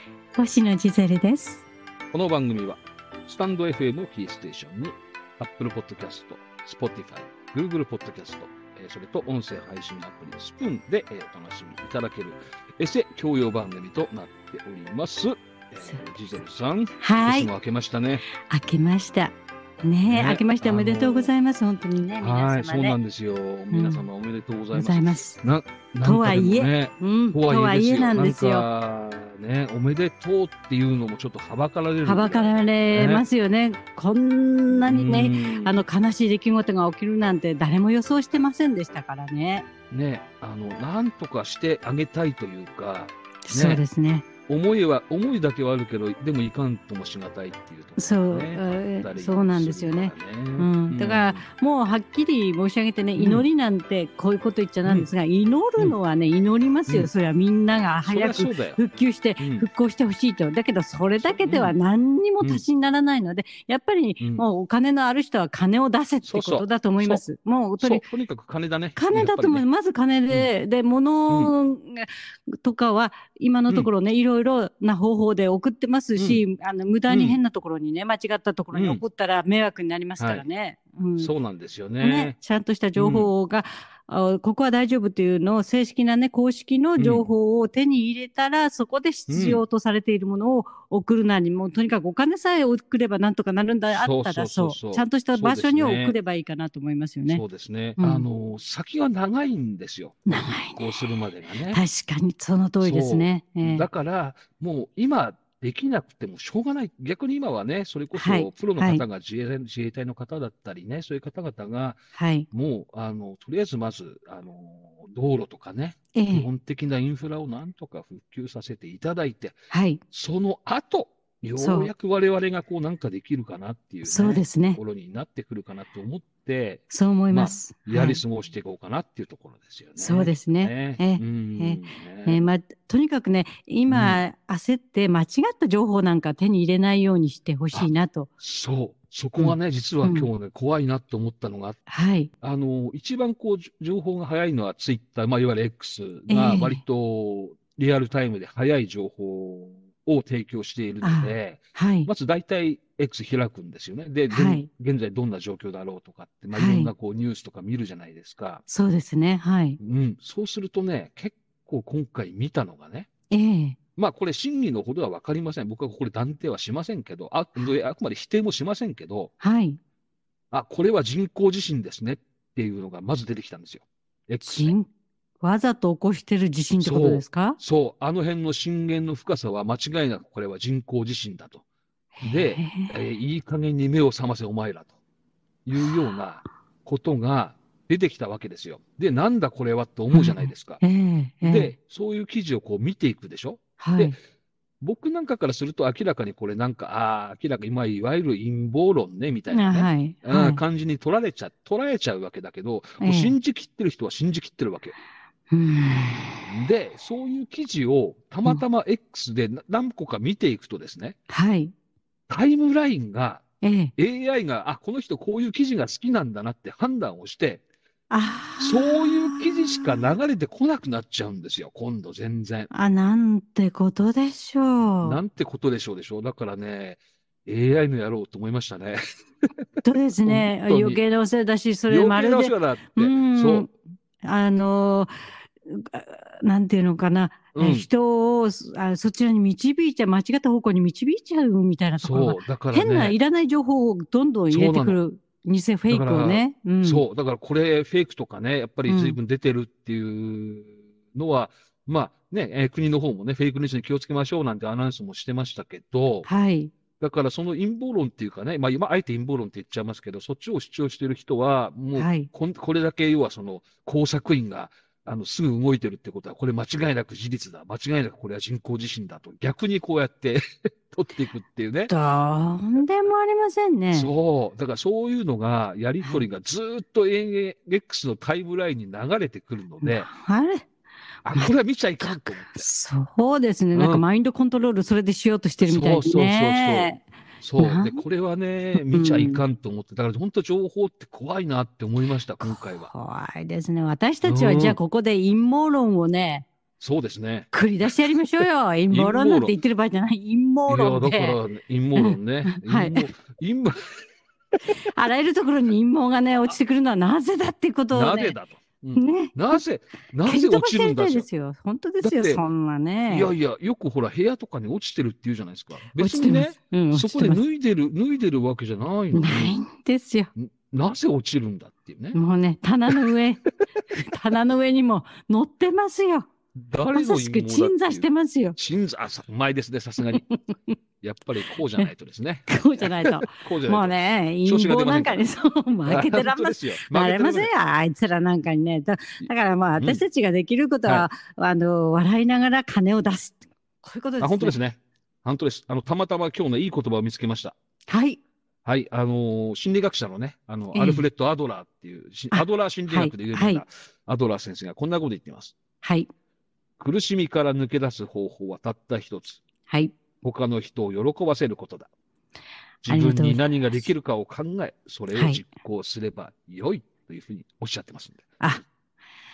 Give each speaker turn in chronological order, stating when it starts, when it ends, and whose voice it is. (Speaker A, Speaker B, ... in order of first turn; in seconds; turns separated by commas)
Speaker A: 0.4-1.7, Speaker B: 2.1-18.2, Speaker A: 17.0-17.5, Speaker A: 18.4-23.0, Speaker B: 20.1-21.3, Speaker B: 22.2-33.2, Speaker A: 23.7-24.1, Speaker A: 24.7-25.4, Speaker A: 26.0-28.7, Speaker A: 32.0-39.7, Speaker B: 34.7-35.8, Speaker B: 39.9-43.8, Speaker A: 43.5-44.3, Speaker B: 44.5-51.4, Speaker A: 48.0-68.0, Speaker B: 53.2-53.5, Speaker B: 58.1-58.8, Speaker B: 59.4-59.7, Speaker B: 61.2-61.7, Speaker B: 66.2-67.2, Speaker B: 67.8-69.6, Speaker A: 69.0-81.3, Speaker B: 76.2-76.4, Speaker B: 77.1-77.4, Speaker B: 78.7-79.0, Speaker B: 80.2-80.4, Speaker B: 81.2-82.4, Speaker A: 82.0-97.4, Speaker B: 83.0-83.3, Speaker B: 87.0-87.3, Speaker B: 89.3-89.6, Speaker B: 93.9-96.2, Speaker B: 97.3-101.8, Speaker A: 98.0-98.3, Speaker A: 100.3-101.1, Speaker A: 101.7-103.9, Speaker B: 102.8-112.0, Speaker A: 108.2-109.0, Speaker A: 112.2-112.5, Speaker B: 112.5-132.4, Speaker A: 116.2-116.5, Speaker A: 119.7-120.0, Speaker A: 121.6-121.9, Speaker A: 124.0-124.8, Speaker A: 126.9-128.2, Speaker A: 130.0-138.3, Speaker B: 133.9-134.2, Speaker B: 138.4-141.8, Speaker A: 139.4-140.3, Speaker A: 141.9-142.3, Speaker B: 142.4-158.6, Speaker A: 146.3-146.8, Speaker A: 151.0-152.1, Speaker A: 154.3-154.7, Speaker A: 156.5-156.9, Speaker A: 158.7-159.8, Speaker B: 159.8-163.1, Speaker A: 163.3-163.8, Speaker B: 164.0-169.3, Speaker A: 169.4-169.8, Speaker B: 170.5-174.7, Speaker A: 174.4-174.9, Speaker A: 175.4-177.6, Speaker B: 176.8-181.6, Speaker A: 182.2-182.9, Speaker B: 182.2-184.9, Speaker B: 185.7-190.8, Speaker A: 190.1-191.7, Speaker B: 191.4-194.2, Speaker A: 193.8-194.2, Speaker B: 194.8-204.9, Speaker A: 199.5-200.6, Speaker A: 203.0-203.3, Speaker A: 205.5-206.5, Speaker B: 206.5-211.2, Speaker A: 211.3-211.7, Speaker B: 212.3-213.4, Speaker A: 213.6-213.9, Speaker B: 214.0-217.6, Speaker A: 218.1-220.1, Speaker B: 218.6-222.7, Speaker A: 222.7-225.2, Speaker B: 225.0-231.0, Speaker A: 229.8-233.7, Speaker B: 231.9-233.7, Speaker A: 234.2-235.1, Speaker A: 235.7-247.0, Speaker B: 237.5-237.9, Speaker B: 242.0-243.2, Speaker B: 244.5-245.0, Speaker B: 245.9-256.3, Speaker A: 248.9-249.2, Speaker A: 256.2-256.7, Speaker B: 257.0-271.9, Speaker A: 261.9-262.3, Speaker A: 271.9-274.1, Speaker B: 273.9-280.1, Speaker A: 279.8-280.6, Speaker B: 281.2-282.7, Speaker A: 281.4-287.0, Speaker B: 283.8-284.0, Speaker B: 285.6-292.9, Speaker A: 287.6-288.0, Speaker A: 288.9-289.4, Speaker A: 292.4-296.5, Speaker B: 294.2-294.8, Speaker B: 296.8-297.9, Speaker A: 297.5-301.4, Speaker B: 298.9-299.6, Speaker B: 300.7-303.9, Speaker A: 302.0-303.1, Speaker A: 304.9-308.4, Speaker B: 307.9-311.3, Speaker A: 309.0-309.6, Speaker A: 310.2-313.3, Speaker B: 312.0-312.4, Speaker B: 313.1-319.6, Speaker A: 316.0-317.4, Speaker A: 319.1-320.3, Speaker B: 320.4-322.2, Speaker A: 322.1-326.3, Speaker B: 326.6-330.2, Speaker A: 326.9-328.6, Speaker A: 330.1-330.8, Speaker B: 331.0-333.9, Speaker A: 332.5-344.6, Speaker B: 334.4-335.2, Speaker B: 335.9-337.5, Speaker B: 339.2-340.0, Speaker B: 344.2-347.6, Speaker A: 347.9-348.2, Speaker B: 348.6-355.6, Speaker A: 350.7-351.1, Speaker A: 352.3-353.6, Speaker A: 355.8-356.1, Speaker B: 356.8-359.4, Speaker A: 359.7-359.9, Speaker B: 360.2-361.9, Speaker B: 362.8-368.3, Speaker A: 362.9-363.4, Speaker A: 365.1-365.4